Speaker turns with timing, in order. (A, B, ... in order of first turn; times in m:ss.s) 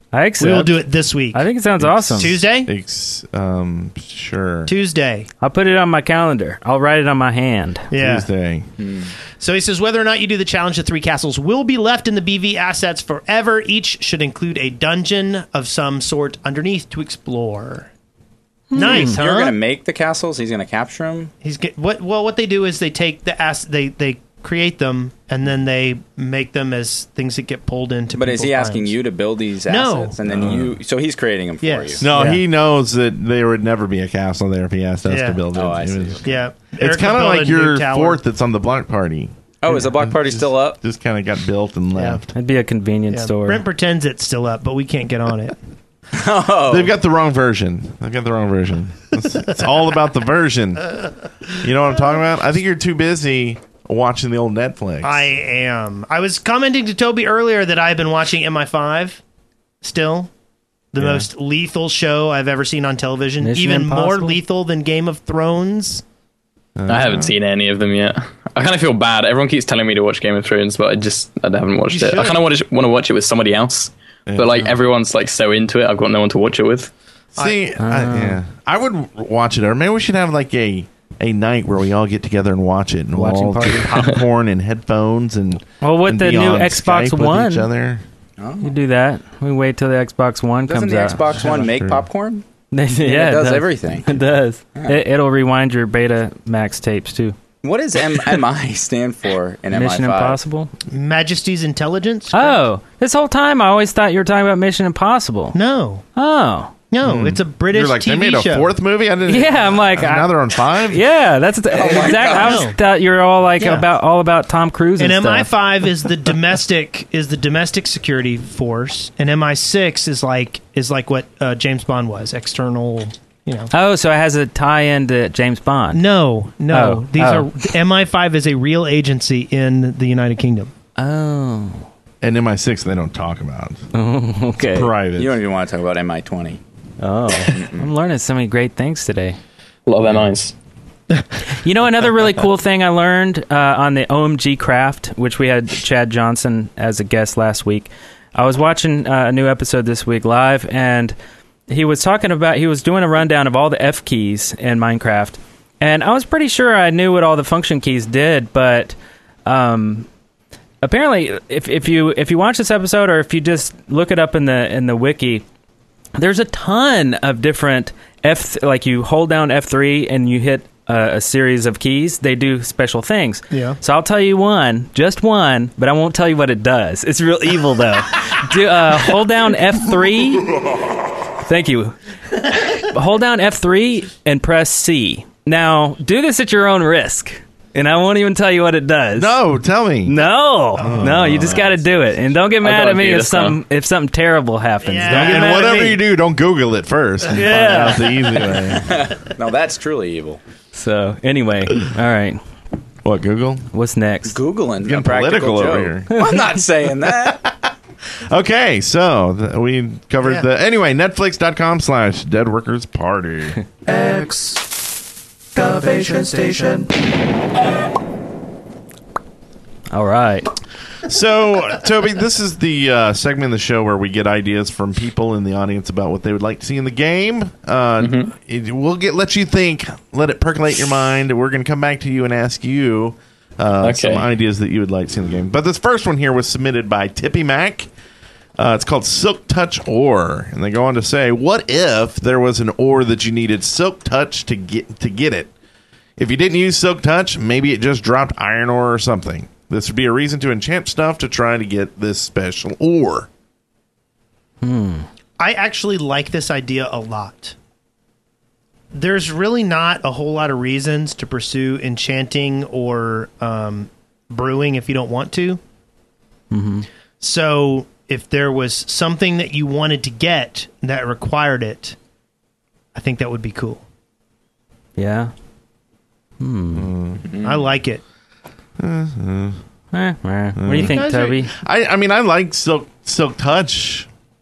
0:00.1-0:02.3 A
0:00.4-0:01.5 B
0:01.8-0:04.7 C
0:02.2-0:02.7 B
0:04.6-0:05.3 B
0:05.4-0:07.9 A
0:07.9-0:08.3 B
0:07.9-0:08.7 C
0:08.8-0:09.1 D
0:09.4-0:17.9 B
0:18.7-0:19.2 A
0:18.7-0:19.6 B
0:18.8-0:21.3 D
0:21.4-0:29.0 B
0:28.1-0:32.1 D
0:29.6-0:30.2 B
0:30.2-0:30.8 C
0:31.6-0:32.0 B
0:32.0-0:42.3 C
0:32.1-0:32.4 A
0:35.0-0:35.4 B
0:35.5-0:36.2 D
0:36.2-0:38.2 B
0:39.6-0:40.8 D
0:41.9-0:42.2 B
0:42.3-0:43.6 A
0:43.1-0:45.6 B
0:46.1-0:46.9 D
0:46.7-0:50.9 C
0:51.5-0:55.3 C
0:55.0-0:59.2 B
0:59.8-1:00.3 B
1:00.9-1:06.0 B
1:01.0-1:01.3 C
1:03.4-1:04.4 A
1:06.8-1:07.3 C
1:06.9-1:16.9 E
1:11.9-1:12.4 B
1:14.2-1:14.7 C
1:17.4-1:17.6 B
1:17.4-1:28.0 C
1:17.8-1:18.4 A
1:23.1-1:24.1 A
1:25.8-1:27.7 A
1:28.4-1:28.8 D
1:28.6-1:31.4 A
1:30.6-1:32.4 D
1:31.4-1:32.0 C
1:32.7-1:37.4 A
1:33.0-1:34.2 D
1:34.7-1:35.0 D
1:37.6-1:40.4 D
1:39.7-1:40.7 A
1:40.9-1:42.6 B
1:42.3-1:45.6 A
1:45.5-1:46.0 B
1:46.2-1:46.7 A
1:46.9-1:48.7 B
1:47.0-1:51.0 C
1:49.3-1:55.5 A
1:51.7-1:52.7 D
1:52.4-1:52.7 B
1:53.6-1:53.8 B
1:55.0-2:03.7 B
2:03.7-2:06.0 A
2:05.9-2:10.7 B
2:06.7-2:07.5 A
2:11.0-2:11.8 A
2:12.2-2:13.9 C
2:13.9-2:14.9 A
2:14.6-2:15.4 C
2:15.2-2:16.6 D
2:17.0-2:19.4 A
2:17.4-2:17.9 D
2:19.8-2:20.5 E
2:21.5-2:31.1 A
2:31.7-2:38.9 A
2:39.4-2:40.1 A
2:40.8-2:45.4 A
2:46.2-3:00.5 A
2:53.5-2:53.8 B
3:01.4-3:02.0 A
3:02.5-3:09.4 A
3:09.2-3:10.2 C
3:10.0-3:15.9 A
3:10.8-3:11.6 C
3:11.5-3:11.8 D
3:12.6-3:13.6 E
3:14.8-3:16.0 B
3:15.1-3:19.1 C
3:17.3-3:18.5 A
3:18.7-3:20.4 D
3:20.7-3:22.4 A
3:23.0-3:23.7 C
3:23.7-3:24.4 A
3:24.3-3:27.4 D
3:24.8-3:26.2 C
3:27.0-3:33.6 C
3:33.8-3:34.7 F
3:35.5-3:36.9 F
3:39.9-3:40.5 A
3:41.0-3:57.9 C
3:48.0-3:48.3 E
3:53.8-3:54.2 E
3:58.6-4:05.5 C
4:06.2-4:13.3 C
4:14.6-4:15.1 A
4:15.4-4:17.5 B
4:18.9-4:25.6 B
4:26.5-4:26.9 A
4:27.2-4:32.0 B
4:32.9-4:33.8 B
4:35.0-4:35.3 A
4:36.4-4:36.9 A
4:36.7-4:37.2 C
4:37.2-4:37.7 D
4:37.4-4:38.0 B
4:38.8-4:39.6 C
4:39.9-4:41.5 A
4:40.6-4:44.1 C
4:40.7-4:41.5 B